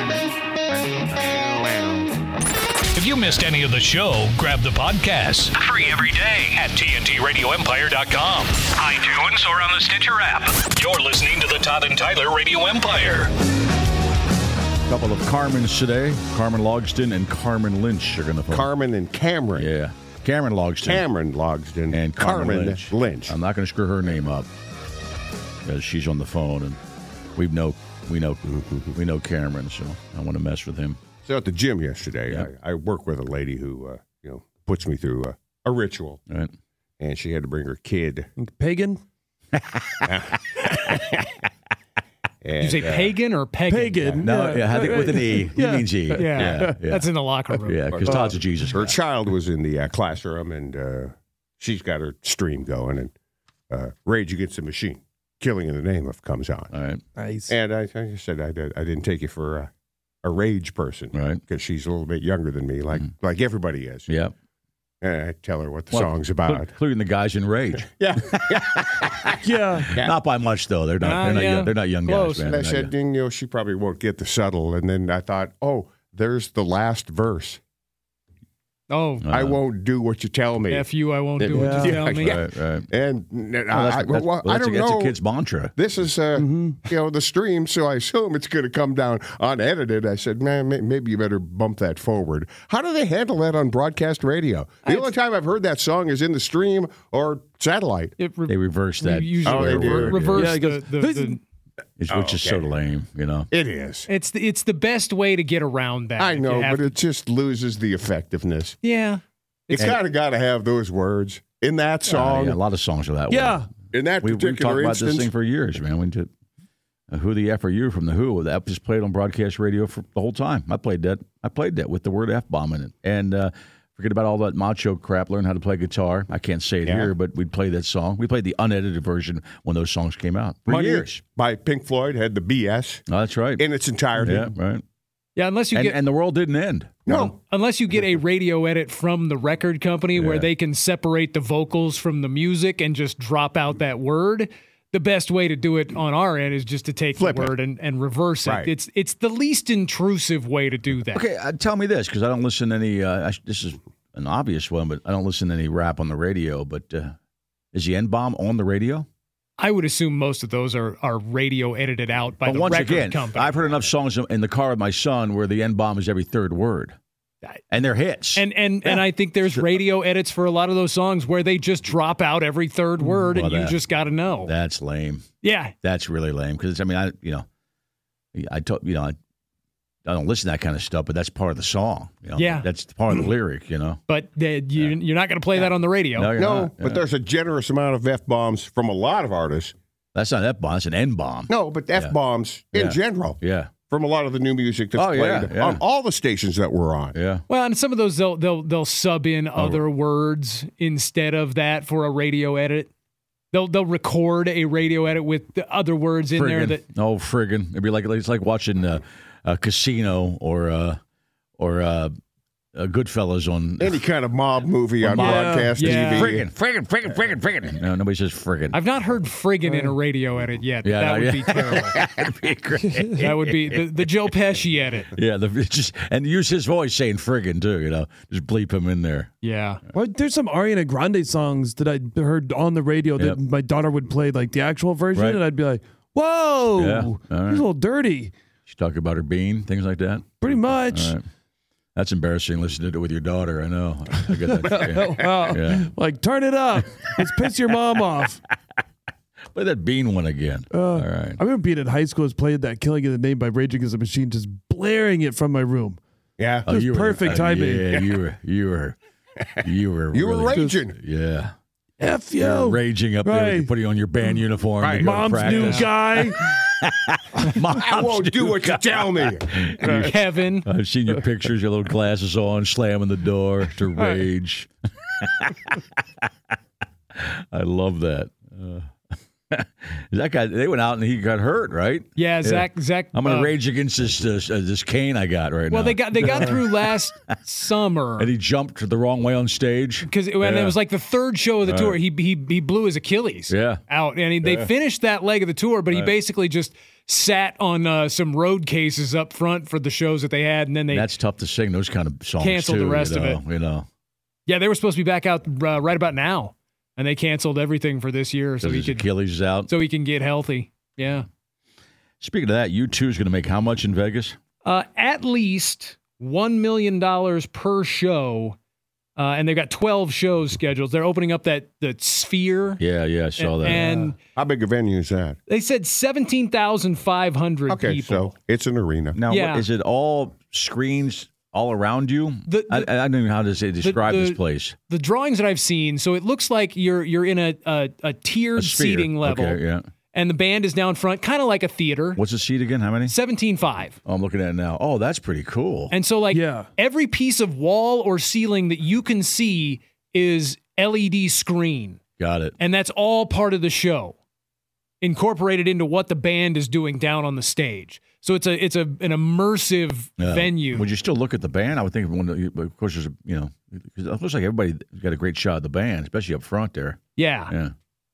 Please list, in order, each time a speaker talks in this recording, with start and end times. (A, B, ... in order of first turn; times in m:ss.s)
0:02.9-0:13.3 A
0:14.9-0:18.7 B
0:18.5-0:19.7 C
0:19.5-0:21.0 B
0:20.8-0:23.4 C
0:21.9-0:24.5 B
0:25.6-0:26.8 B
0:27.4-0:31.0 B
0:28.4-0:28.9 C
0:31.2-0:36.2 C
0:37.0-0:38.3 C
0:38.4-0:39.0 D
0:39.7-0:40.1 B
0:40.0-0:41.2 C
0:42.4-0:43.1 C
0:42.6-0:44.2 E
0:42.8-0:43.1 B
0:43.7-0:46.7 D
0:44.2-0:47.1 B
0:46.1-0:47.9 E
0:47.6-0:49.0 B
0:47.9-0:53.1 C
0:48.1-0:48.3 D
0:53.7-0:56.7 C
0:56.7-0:57.0 B
0:57.2-0:57.5 D
0:57.5-0:59.7 C
1:00.2-1:04.1 C
1:01.1-1:01.4 B
1:04.1-1:04.3 B
1:05.0-1:06.7 C
1:05.9-1:09.0 B
1:07.9-1:09.3 C
1:09.4-1:09.9 D
1:09.8-1:12.9 B
1:11.0-1:12.4 E
1:12.5-1:17.6 C
1:18.9-1:19.2 E
1:19.2-1:19.6 B
1:19.3-1:20.9 C
1:20.7-1:22.4 E
1:21.4-1:22.9 B
1:21.5-1:22.3 D
1:22.2-1:25.2 C
1:23.7-1:25.8 B
1:25.7-1:38.2 C
1:26.4-1:26.8 D
1:34.8-1:35.1 E
1:38.2-1:41.4 E
1:38.5-1:40.5 B
1:39.4-1:40.2 C
1:40.4-1:41.4 D
1:42.0-1:43.5 B
1:42.1-1:42.7 C
1:43.5-1:44.1 C
1:44.1-1:46.9 E
1:46.2-1:48.8 C
1:48.8-1:49.9 E
1:49.7-1:52.6 C
1:52.1-1:53.6 B
1:53.3-1:53.7 D
1:53.9-1:55.3 C
1:54.2-1:56.3 B
1:57.1-2:11.2 B
2:06.8-2:07.1 C
2:10.7-2:13.0 C
2:13.1-2:13.6 B
2:13.6-2:14.5 C
2:14.2-2:14.8 B
2:15.4-2:16.0 E
2:15.7-2:17.0 B
2:17.0-2:17.4 C
2:17.1-2:31.2 E
2:20.1-2:20.5 B
2:27.2-2:27.5 C
2:28.4-2:28.7 C
2:31.1-2:37.1 B
2:37.7-2:39.1 B
2:39.6-2:43.7 E
2:42.4-2:46.9 B
2:47.7-2:49.6 B
2:48.3-2:54.5 E
2:53.3-2:53.8 B
2:54.4-2:55.3 B
2:55.4-2:55.7 E
2:55.8-2:57.4 B
2:58.3-2:59.2 B
3:00.0-3:04.0 B
3:02.4-3:02.7 E
3:04.1-3:06.3 E
3:06.2-3:07.0 B
3:06.4-3:09.7 C
3:10.1-3:12.1 B
3:11.5-3:17.2 C
3:12.7-3:13.7 B
3:14.9-3:15.8 B
3:17.1-3:17.4 B
3:17.5-3:22.9 E
3:19.6-3:19.8 B
3:23.5-3:26.8 E
3:26.3-3:31.0 B
3:31.6-3:32.1 B
3:32.7-3:34.0 B
3:33.8-3:36.5 C
3:35.0-3:35.3 B
3:35.1-3:35.9 D
3:35.2-3:36.2 E
3:35.8-3:38.8 B
3:38.7-3:42.0 E
3:39.6-3:39.9 D
3:40.8-3:43.8 B
3:43.2-3:45.1 E
3:45.1-3:49.3 B
3:49.4-3:49.8 E
3:49.9-3:58.3 D
3:55.1-3:55.4 B
3:56.8-3:57.6 B
3:58.7-4:01.2 B
4:00.4-4:01.2 D
4:01.9-4:05.9 B
4:04.6-4:08.4 D
4:09.5-4:11.4 B
4:10.7-4:16.0 D
4:16.4-4:16.7 C
4:16.6-4:19.0 B
4:16.7-4:17.9 D
4:19.4-4:21.0 C
4:19.6-4:21.5 B
4:22.0-4:23.7 D
4:22.4-4:26.2 B
4:24.8-4:25.2 C
4:25.0-4:26.4 D
4:25.5-4:25.9 E
4:26.8-4:30.0 B
4:27.6-4:30.1 C
4:30.0-4:30.7 E
4:30.6-4:35.7 B
4:37.1-4:38.9 B
4:39.5-4:46.9 B
4:42.1-4:43.5 E
4:45.7-4:48.3 E
4:48.2-4:50.8 B
4:50.0-5:01.1 E
4:51.6-4:52.0 B
4:53.5-4:53.8 B
4:54.4-4:54.7 B
5:00.9-5:03.8 B
5:02.4-5:03.4 E
5:04.5-5:09.1 E
5:08.6-5:09.7 B
5:09.7-5:11.2 E
5:12.2-5:14.4 B
5:14.6-5:18.6 E
5:19.2-5:22.8 E
5:22.8-5:23.8 B
5:23.4-5:24.1 E
5:23.7-5:24.1 D
5:24.4-5:25.4 C
5:25.5-5:28.3 E
5:27.7-5:29.2 C
5:29.1-5:34.8 B
5:29.3-5:29.6 E
5:32.4-5:32.9 E
5:33.8-5:39.6 E
5:38.6-5:39.9 B
5:40.1-5:42.2 E
5:42.2-5:43.2 B
5:43.1-5:44.0 E
5:44.0-5:45.9 B
5:45.9-5:52.0 E
5:46.3-5:46.7 D
5:52.2-5:52.5 B
5:52.6-5:54.2 E
5:55.0-6:00.9 E
6:00.2-6:07.7 B
6:07.2-6:07.5 E